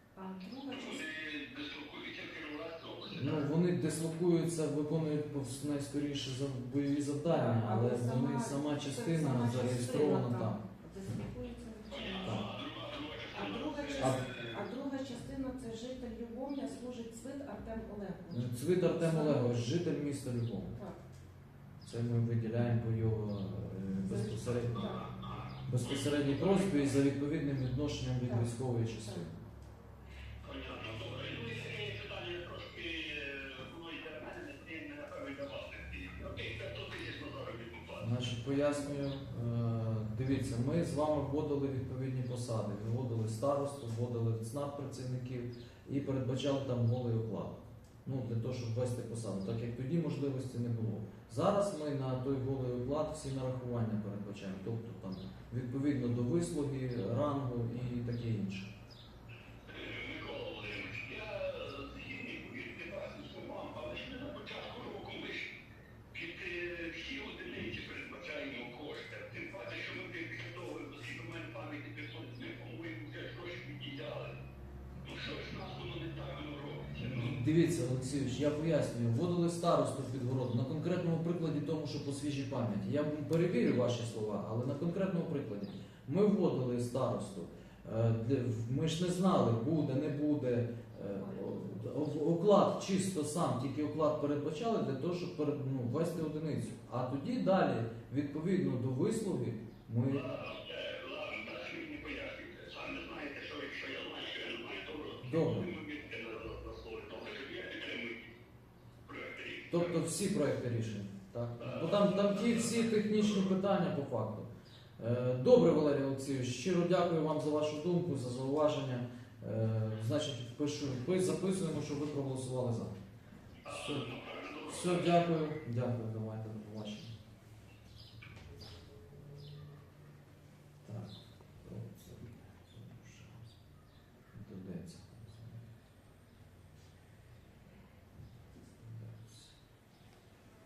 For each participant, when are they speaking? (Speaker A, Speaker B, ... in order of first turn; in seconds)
Speaker A: 0.1-1.1, 7.3-12.5, 13.3-19.6, 24.1-25.0
Speaker B: 0.7-3.5, 11.9-14.6, 24.6-26.8, 30.4-38.0, 59.7-65.5, 66.1-74.3, 75.0-77.3, 100.1-108.3, 109.1-109.9, 111.6-112.8, 123.6-125.1
Speaker C: 3.1-10.6, 12.2-12.5, 18.3-20.7, 21.8-24.9, 25.6-29.3, 38.0-58.7, 77.0-100.3, 105.2-105.7, 109.7-122.9, 123.7-124.1, 124.6-127.1, 130.8-133.5, 134.3-135.7, 138.8-139.5